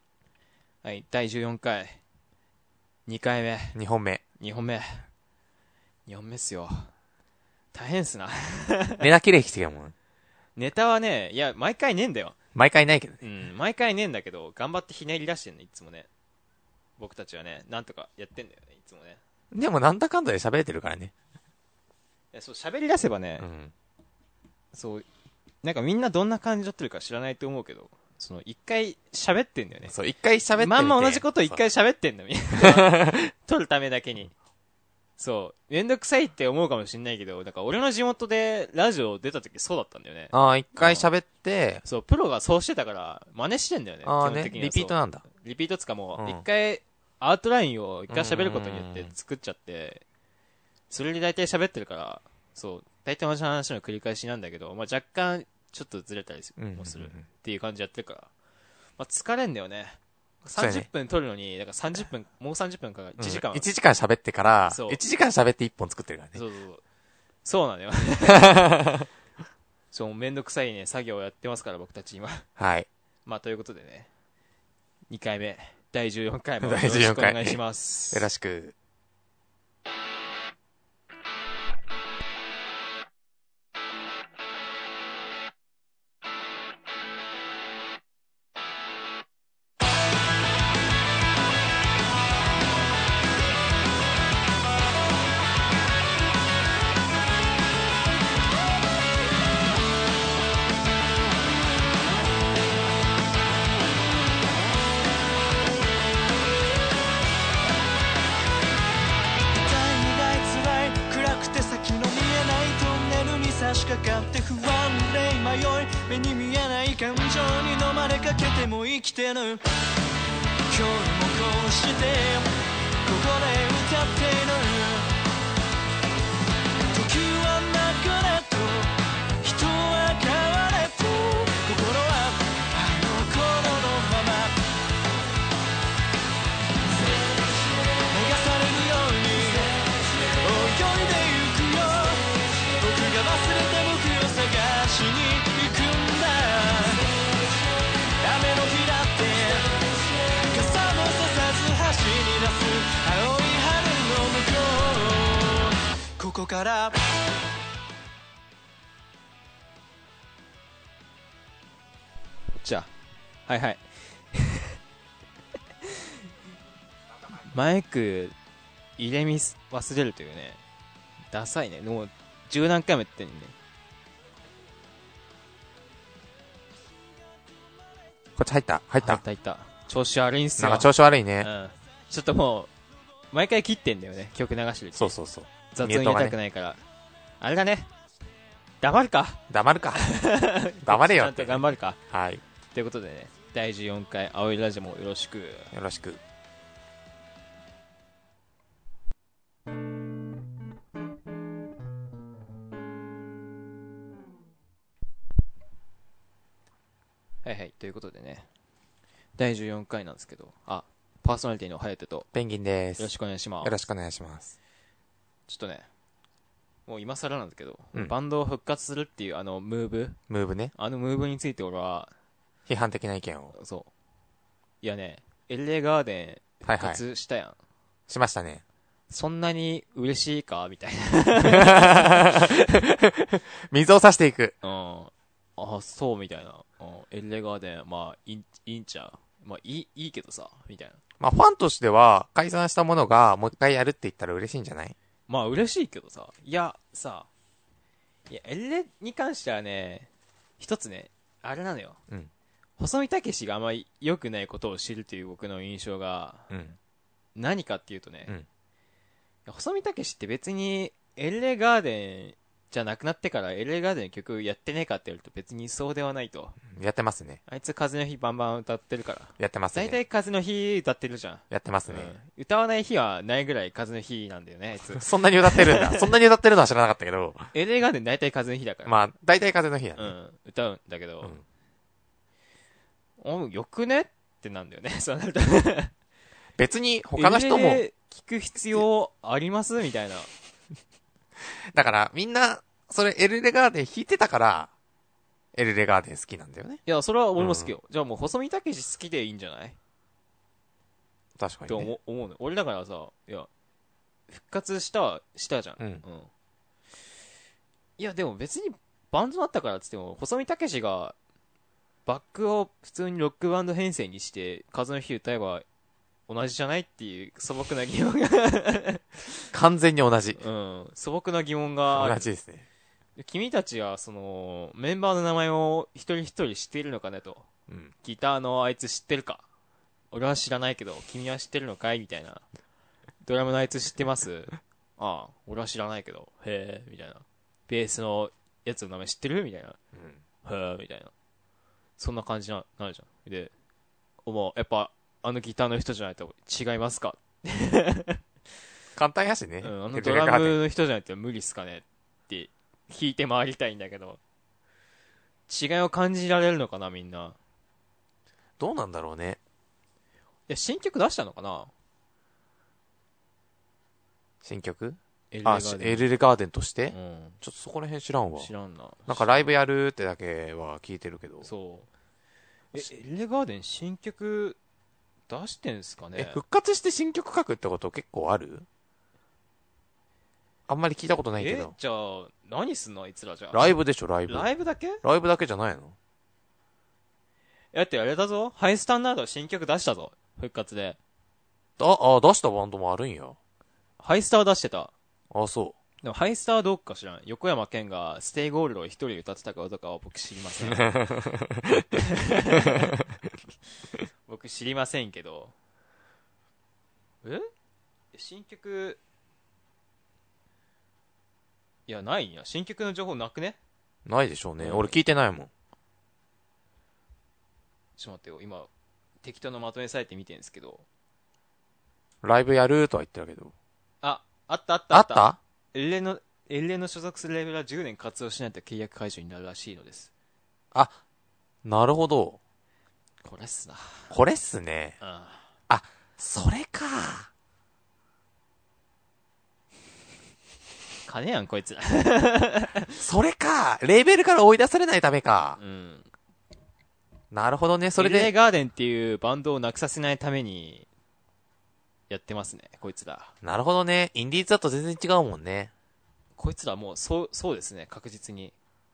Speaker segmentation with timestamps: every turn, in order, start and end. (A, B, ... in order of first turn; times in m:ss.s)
0:00.8-0:02.0 A
0:03.1-0:03.8 A
0:03.8-0:04.2 B
0:04.4-0:05.1 A
0:06.1-0:06.9 A
0:07.7-0:09.1 A
0:09.0-0:09.9 B
0:10.6-0:12.4 A
0:12.6-0:13.2 B
0:13.2-0:16.1 A
0:17.0-0:19.2 A
0:19.5-0:21.1 B
0:22.3-0:23.5 A
0:23.4-0:23.7 B
0:24.7-0:25.1 A
0:25.6-0:29.9 A
0:29.9-0:31.6 B
0:30.6-0:34.3 A
0:32.6-0:33.3 B
0:35.2-0:41.1 A
0:40.3-0:41.8 B
0:41.8-0:50.0 A
0:44.0-0:45.2 B
0:46.2-0:46.4 B
0:48.1-0:49.1 B
0:50.9-0:58.3 A
0:56.6-0:57.3 B
0:59.0-1:03.7 A
1:00.6-1:00.9 B
1:03.2-1:06.4 B
1:04.7-1:05.0 A
1:06.3-1:06.8 A
1:07.4-1:08.8 A
1:08.3-1:09.1 B
1:09.9-1:12.4 A
1:12.6-1:12.9 B
1:13.3-1:14.1 A
1:15.1-1:18.3 A
1:16.6-1:17.6 B
1:18.1-1:18.8 B
1:49.6-1:59.6 C
2:00.7-2:02.5 C
2:03.0-2:05.1 C
2:06.9-2:14.6 C
2:18.1-2:27.1 C
2:28.2-2:29.7 C
2:30.4-2:37.0 C
2:42.6-2:42.9 A
2:43.5-2:44.8 A
2:45.8-2:46.1 A
2:47.4-2:48.4 A
2:49.0-2:50.6 A
2:51.3-2:53.5 A
2:58.4-2:59.2 B
2:59.0-3:00.9 A
3:00.6-3:01.5 B
3:01.4-3:02.7 A
3:03.3-3:05.2 A
3:05.0-3:06.4 B
3:05.7-3:06.8 A
3:07.4-3:07.9 A
3:08.8-3:09.4 A
3:09.5-3:10.1 B
3:10.0-3:12.0 A
3:10.8-3:12.4 B
3:12.7-3:15.7 A
3:15.7-3:16.2 B
3:27.4-3:28.5 A
3:29.4-3:32.3 A
3:32.3-3:34.6 B
3:33.0-3:33.8 A
3:35.5-3:35.9 A
3:36.9-3:40.2 A
3:40.3-3:40.7 B
3:40.8-3:42.1 A
3:42.7-3:43.5 B
3:43.5-3:43.9 A
3:44.8-3:47.6 A
3:46.6-3:47.0 B
3:48.1-3:48.6 B
3:49.1-3:52.4 A
3:51.4-3:54.6 B
3:54.6-4:01.0 A
4:01.2-4:05.0 B
4:05.3-4:07.3 A
4:08.3-4:12.0 A
4:12.8-4:16.5 A
4:16.5-4:16.8 B
4:17.4-4:18.3 A
4:19.5-4:26.6 A
4:26.7-4:27.4 B
4:27.5-4:36.1 A
4:29.4-4:30.0 B
4:31.5-4:32.2 B
4:34.9-4:37.5 B
4:37.5-4:39.0 A
4:38.8-4:40.1 B
4:40.0-4:41.4 A
4:43.2-4:45.9 A
4:46.6-4:47.8 B
4:47.2-4:50.3 A
4:51.7-4:54.7 B
4:55.5-4:56.8 B
4:56.9-4:59.8 A
4:57.4-4:57.7 B
5:01.4-5:01.9 B
5:01.7-5:03.5 A
5:04.3-5:06.3 A
5:05.8-5:06.0 B
5:08.0-5:11.2 A
5:12.1-5:15.6 A
5:16.3-5:19.1 A
5:19.5-5:20.4 B
5:20.4-5:22.3 A
5:21.9-5:22.7 B
5:23.2-5:27.5 A
5:27.7-5:27.9 B
5:28.0-5:29.4 A
5:30.1-5:32.4 A
5:33.2-5:39.8 A
5:40.0-5:40.2 B
5:40.4-5:41.1 A
5:42.0-5:43.5 A
5:44.2-5:48.2 A
5:49.0-5:50.6 B
5:49.6-5:54.2 A
5:55.5-5:57.4 A
5:58.6-5:59.4 B
6:00.5-6:01.7 A
6:04.4-6:08.5 B
6:05.3-6:06.0 A
6:06.9-6:07.4 A
6:08.4-6:09.4 A
6:09.1-6:11.5 B
6:11.4-6:11.9 A
6:12.7-6:14.6 A
6:15.3-6:16.4 A
6:16.2-6:18.7 B
6:20.7-6:21.7 B
6:21.4-6:23.7 A
6:23.5-6:24.5 B
6:24.3-6:25.0 A
6:25.0-6:26.0 B
6:27.7-6:31.0 A
6:31.8-6:33.4 B
6:34.0-6:34.9 A
6:35.3-6:35.8 B
6:36.0-6:41.0 A
6:40.7-6:43.1 B
6:41.9-6:42.9 A
6:44.3-6:45.5 A
6:47.2-6:47.5 A
6:48.1-6:49.0 A
6:51.9-6:53.6 A
6:54.1-6:55.5 B
6:54.6-6:55.0 A
6:58.0-6:58.7 A
6:59.2-7:00.8 A
7:02.2-7:03.5 B
7:04.0-7:10.1 A
7:04.9-7:05.4 B
7:10.7-7:11.0 B
7:11.6-7:12.4 B
7:13.2-7:14.1 A
7:14.1-7:15.0 B
7:15.0-7:15.5 A
7:15.7-7:17.3 B
7:21.1-7:23.0 A
7:23.0-7:25.6 B
7:25.6-7:26.1 A
7:27.3-7:28.3 B
7:28.0-7:30.9 A
7:32.1-7:33.3 A
7:33.4-7:35.7 B
7:36.4-7:38.5 A